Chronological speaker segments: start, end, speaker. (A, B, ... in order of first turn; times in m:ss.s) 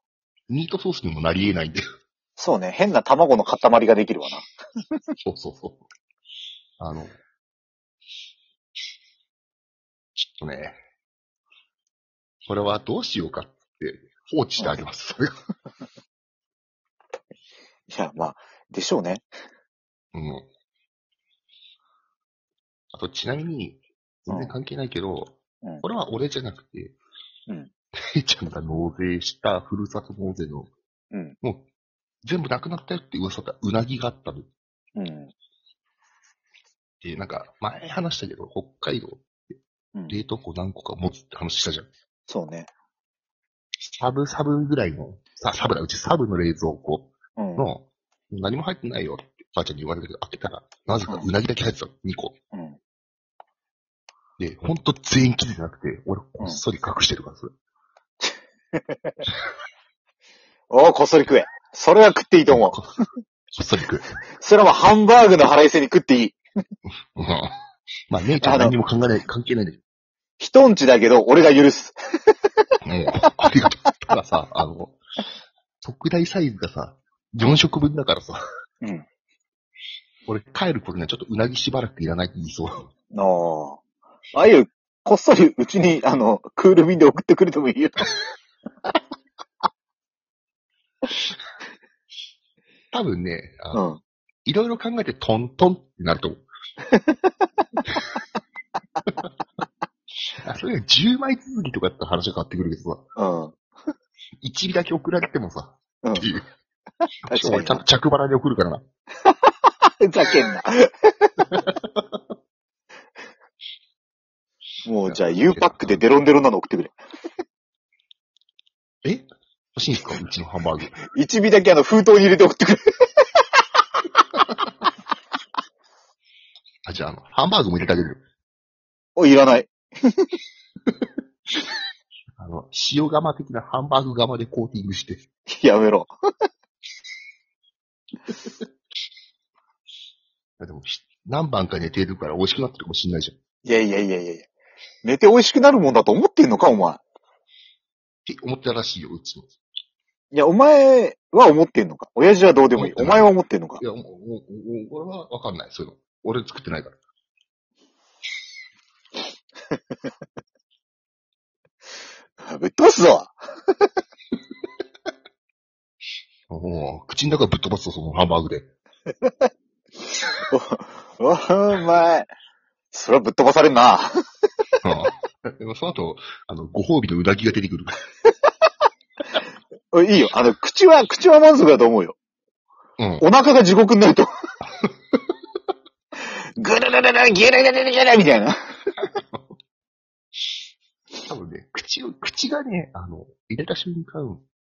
0:00.5-0:01.8 A
0:02.4-0:05.0 B
0:05.2-0:05.8 A
0:06.8-0:07.2 A
0:10.2-0:10.8 A
0:12.5-0:15.3 A
0:17.9-0:19.3 B
0:20.1-0:20.5 A
0:22.9-0:27.0 A
0:24.3-0:24.6 B
0:27.9-0:30.7 A
0:31.1-0:31.4 B
0:31.4-0:31.7 A
0:32.2-0:34.5 A
0:35.0-0:35.3 B
0:37.0-0:39.6 A
0:40.1-0:41.9 A
0:42.3-0:42.7 B
0:43.8-0:52.4 A
0:47.4-0:47.7 B
0:52.5-0:52.8 B
0:54.4-0:57.5 A
0:58.2-0:59.3 B
1:00.7-1:02.8 B
1:02.5-1:02.9 A
1:03.5-1:04.1 A
1:04.4-1:06.4 B
1:07.2-1:07.5 A
1:08.1-1:09.8 A
1:08.4-1:08.8 B
1:10.4-1:12.7 B
1:12.8-1:15.0 A
1:15.8-1:18.4 A
1:20.3-1:22.9 A
1:23.1-1:23.8 B
1:24.3-1:28.2 B
1:32.9-1:33.8 A
1:33.7-1:34.0 B
1:34.4-1:36.4 A
1:36.9-1:37.7 B
1:40.4-1:43.0 A
1:43.2-1:43.6 B
1:44.4-1:46.5 A
1:47.3-1:47.8 B
1:47.3-1:48.8 A
1:49.2-1:51.5 B
1:51.4-1:52.2 A
1:54.8-1:57.0 B
1:55.1-1:56.1 A
1:59.0-2:01.0 A
2:01.1-2:03.4 B
2:06.8-2:08.2 A
2:09.2-2:10.4 B
2:12.4-2:15.2 A
2:15.5-2:16.1 B
2:20.6-2:23.4 A
2:23.6-2:24.5 B
2:25.0-2:27.0 B
2:28.3-2:29.5 A
2:30.3-2:33.8 B
2:32.8-2:37.0 A
2:42.4-2:43.9 B
2:46.5-2:48.7 A
2:49.2-2:49.5 B
2:50.5-2:52.3 B
2:52.9-2:54.1 B
2:54.8-2:57.9 A
2:59.9-3:02.2 B
3:03.0-3:03.2 A
3:03.2-3:04.3 B
3:04.8-3:05.2 A
3:06.2-3:08.6 B
3:11.3-3:14.4 A